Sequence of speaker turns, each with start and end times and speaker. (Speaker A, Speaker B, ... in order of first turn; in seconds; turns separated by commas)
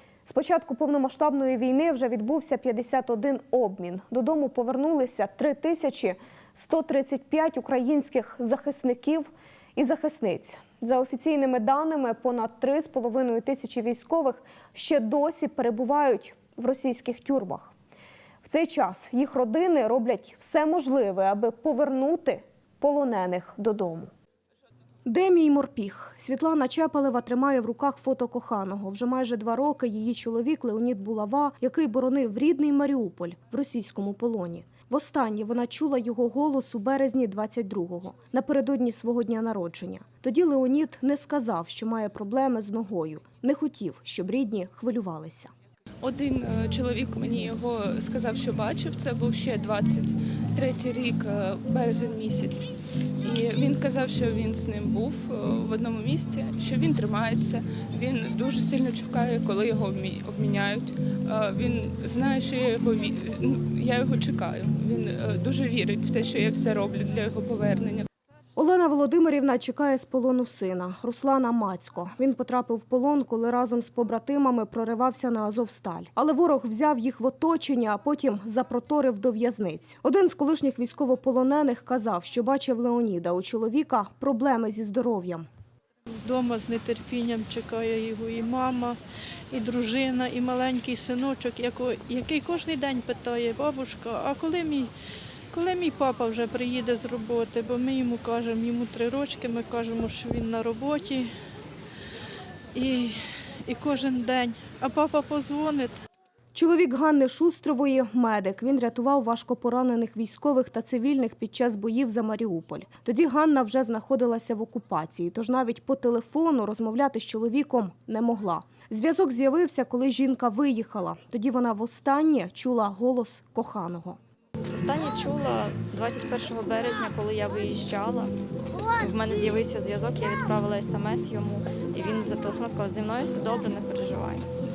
Speaker A: 0.2-17.7, Speaker A: 18.4-24.1, Speaker A: 25.1-45.5, Speaker B: 46.0-52.7, Speaker B: 53.2-68.1, Speaker A: 68.5-85.5, Speaker C: 86.2-89.0, Speaker C: 89.5-94.9, Speaker C: 95.5-101.3, Speaker C: 102.7-106.0, Speaker A: 106.5-124.2, Speaker D: 124.7-128.3, Speaker D: 129.0-134.5